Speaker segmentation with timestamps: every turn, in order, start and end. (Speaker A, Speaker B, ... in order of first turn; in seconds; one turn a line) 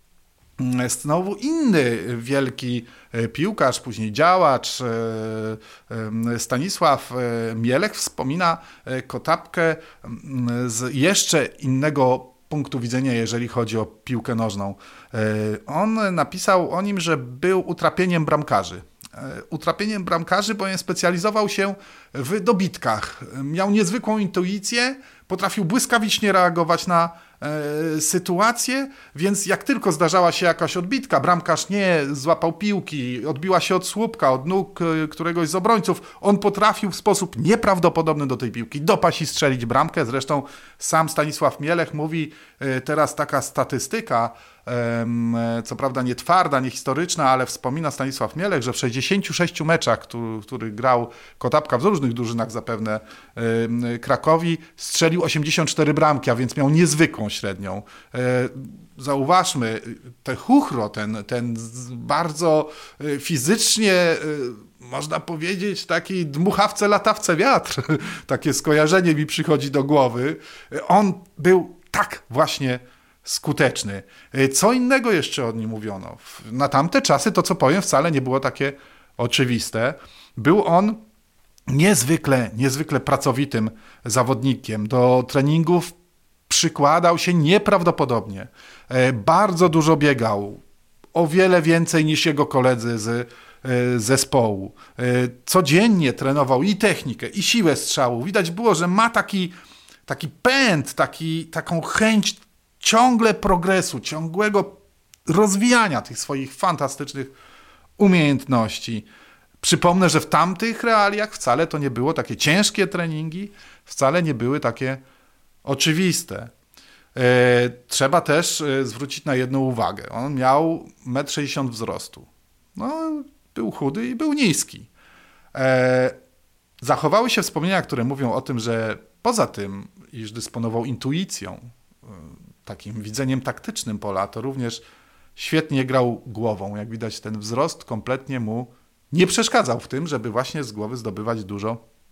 Speaker A: 0.6-81.0
Speaker A: 81.7-86.0
Speaker A: 86.5-90.6
Speaker A: 91.1-99.5
Speaker A: 100.1-107.3
Speaker A: 108.0-109.1
Speaker A: 109.6-115.0
Speaker A: 115.6-116.5
Speaker A: 117.1-124.9
Speaker A: 125.5-126.2
Speaker A: 126.8-134.8
Speaker A: 135.4-141.8